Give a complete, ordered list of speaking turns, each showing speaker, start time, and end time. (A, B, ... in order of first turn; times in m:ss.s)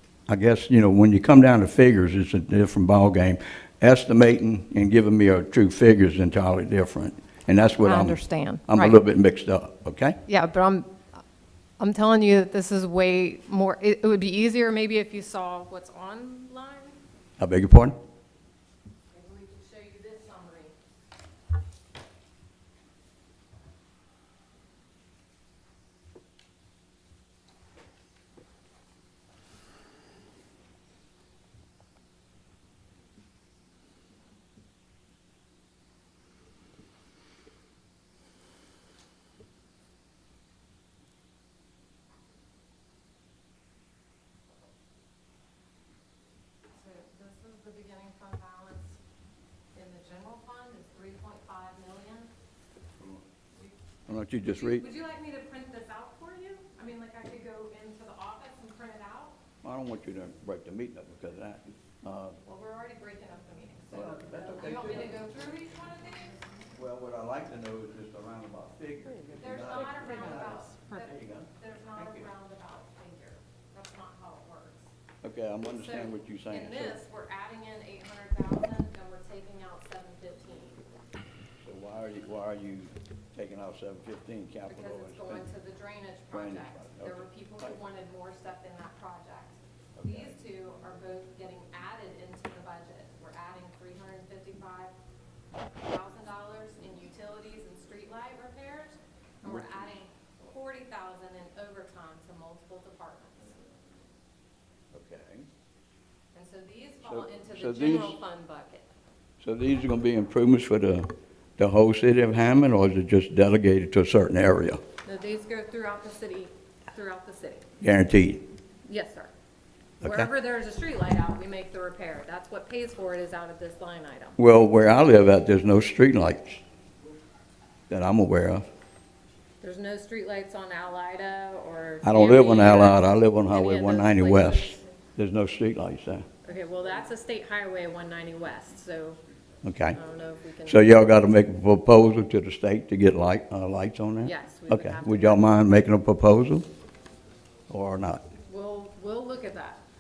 0:00.3-0:10.2 A
0:07.8-0:09.0 B
0:10.3-0:11.0 B
0:11.8-0:17.0 B
0:17.4-0:18.0 A
0:19.1-0:20.7 B
0:46.7-0:49.0 B
0:49.7-0:52.3 B
0:54.1-0:54.9 A
0:54.5-0:59.3 B
0:59.6-1:02.4 A
1:02.4-1:06.4 B
1:03.9-1:05.1 A
1:06.7-1:11.5 A
1:09.4-1:14.9 B
1:12.0-1:12.2 A
1:15.2-1:17.0 A
1:15.6-1:20.8 B
1:21.6-1:25.5 A
1:24.7-1:34.9 B
1:26.3-1:27.8 A
1:30.0-1:30.4 A
1:35.8-1:43.5 B
1:39.4-1:39.9 A
1:44.9-1:45.5 A
1:46.3-1:48.9 B
1:47.0-1:48.2 A
1:49.4-1:54.8 A
1:55.0-1:57.6 B
1:57.8-1:58.4 A
1:58.8-1:59.3 B
2:00.0-2:04.4 B
2:00.0-2:00.3 A
2:04.4-2:06.6 A
2:07.9-2:08.6 A
2:09.6-2:14.8 B
2:12.0-2:16.2 A
2:16.4-2:19.2 B
2:19.6-2:20.0 A
2:19.9-2:20.9 B
2:20.6-2:26.6 A
2:24.2-2:25.5 B
2:27.7-2:28.2 A
2:28.5-2:29.8 B